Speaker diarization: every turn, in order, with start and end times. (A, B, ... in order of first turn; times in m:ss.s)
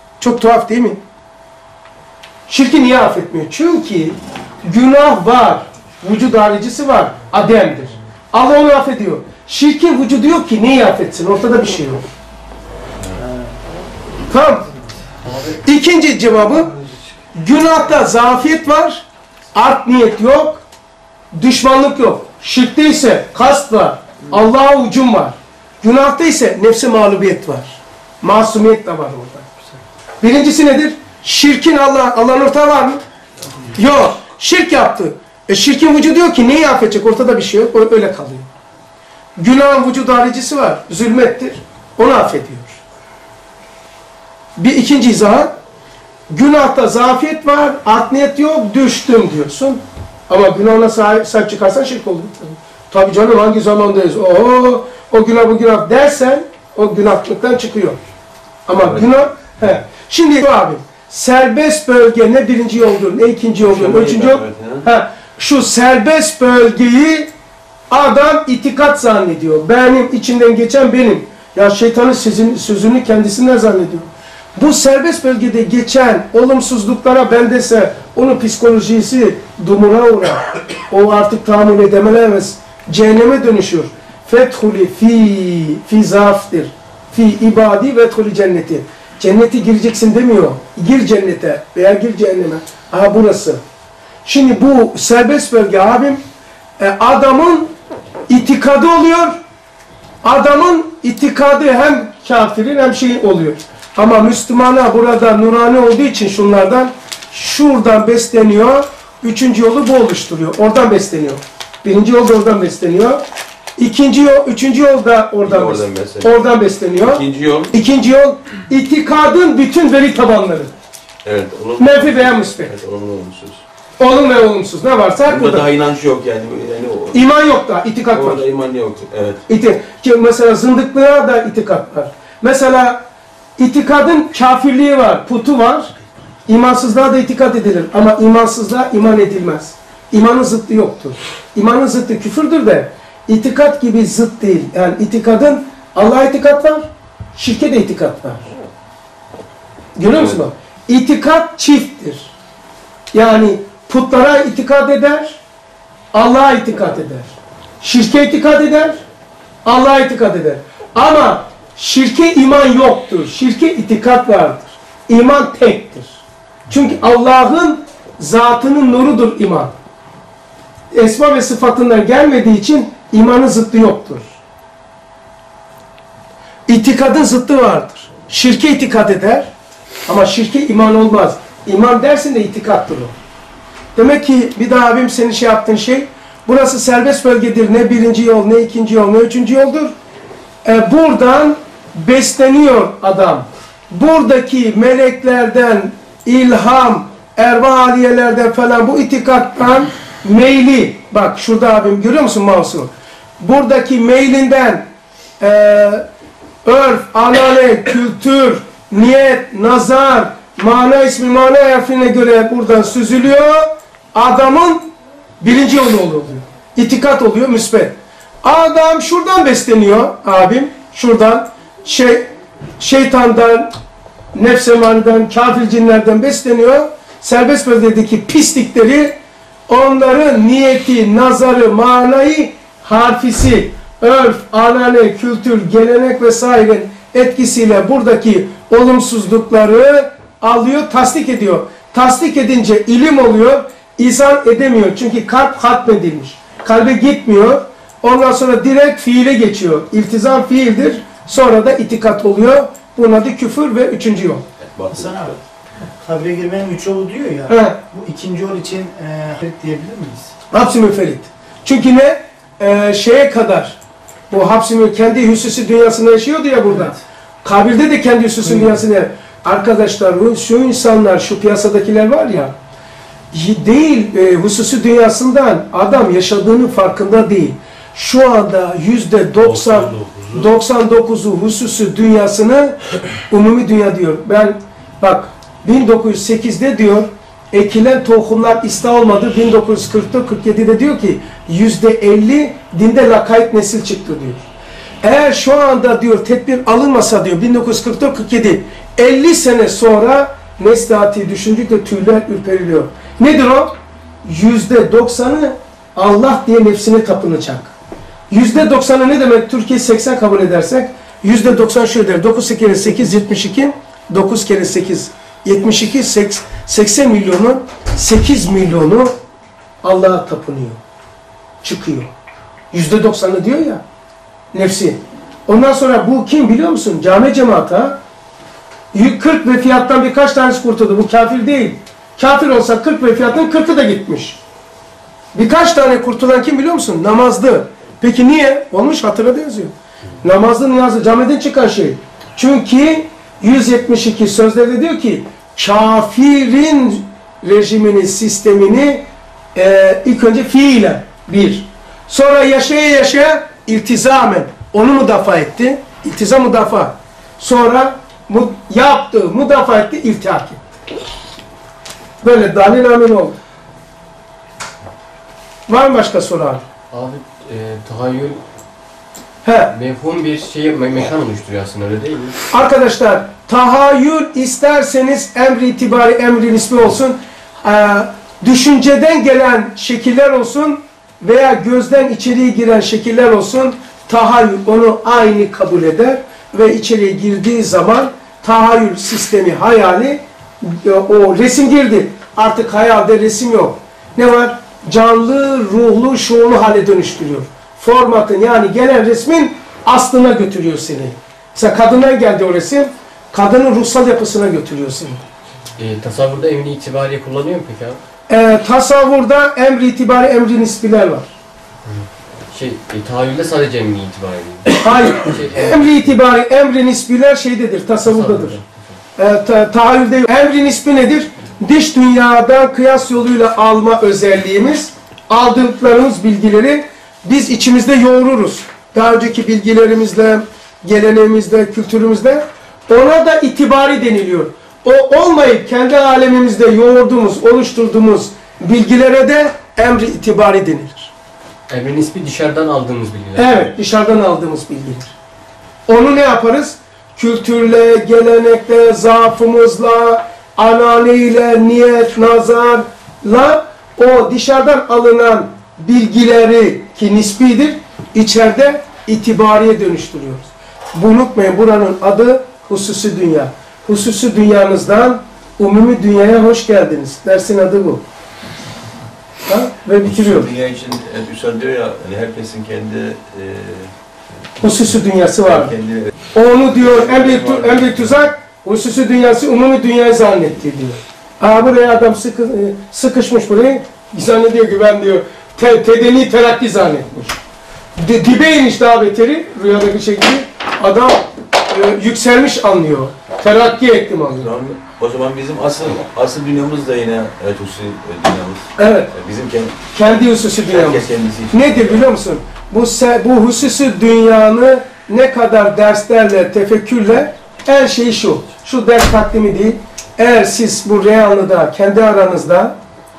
0:00.2-0:01.0 A
0:02.5-0:12.0 A
0:14.3-0:14.7 A
0:15.6-0:16.7 A
0:17.4-0:20.6 A
0:21.3-0:29.5 A
0:30.2-0:33.0 A
0:33.8-0:38.5 A
0:39.4-0:42.8 A
0:44.6-0:45.5 A
0:46.3-0:58.0 A
0:58.7-1:07.3 A
0:58.8-0:59.1 B
1:03.6-1:04.9 B
1:07.9-1:33.6 A
1:34.2-1:36.2 A
1:36.8-1:37.7 A
1:38.3-1:39.4 A
1:40.2-1:53.2 A
1:53.8-2:00.7 A
1:55.4-1:56.4 B
1:57.0-1:57.8 B
2:01.2-2:03.6 B
2:01.8-2:02.7 A
2:04.0-2:05.7 A
2:05.2-2:07.2 B
2:07.1-2:08.4 A
2:08.1-2:09.4 B
2:09.5-2:13.0 A
2:13.6-2:15.9 A
2:16.5-2:28.5 A
2:30.0-2:32.3 A
2:30.1-2:30.4 B
2:33.1-2:35.4 A
2:36.1-2:39.0 A
2:39.6-2:46.2 A
2:46.7-2:49.7 A
2:50.9-2:54.3 A
2:56.7-2:59.5 A
3:00.1-3:03.1 A
3:04.0-3:09.9 A
3:10.6-3:24.9 A
3:25.4-3:26.0 A
3:26.6-3:34.9 A
3:35.4-3:42.3 A
3:42.8-3:43.7 A
3:44.4-3:49.2 A
3:49.7-4:14.4 A
4:14.7-4:15.3 B
4:14.9-4:15.4 C
4:16.0-4:20.3 C
4:17.5-4:17.8 A
4:20.5-4:23.8 A
4:24.3-4:32.6 A
4:33.3-4:42.8 A
4:39.7-4:40.2 B
4:43.3-4:54.4 A
4:55.0-5:07.7 A
5:08.3-5:19.1 A
5:19.8-5:20.8 A
5:21.6-5:22.1 A
5:22.7-5:23.8 A
5:24.5-5:28.0 A
5:28.9-5:34.4 A
5:35.3-6:00.6 A
6:02.2-6:03.4 A
6:05.7-6:06.6 A
6:06.9-6:08.4 D
6:09.4-6:09.7 A
6:09.7-6:12.4 D
6:12.5-6:45.2 A
6:45.8-6:48.0 D
6:48.3-6:51.3 A
6:51.9-6:56.0 D
6:54.8-6:58.6 A
6:58.0-6:58.7 D
6:59.2-7:21.1 A
7:21.7-7:23.6 D
7:23.4-7:25.1 A
7:25.9-7:48.0 A
7:49.5-7:50.5 A
7:50.0-7:53.9 B
7:54.6-7:55.8 A
7:55.4-7:56.1 B
7:56.3-8:07.4 A
7:56.7-7:58.1 B
8:08.0-8:14.5 A
8:14.4-8:19.8 B
8:18.8-8:19.1 A
8:19.9-8:32.8 A
8:20.6-8:22.1 B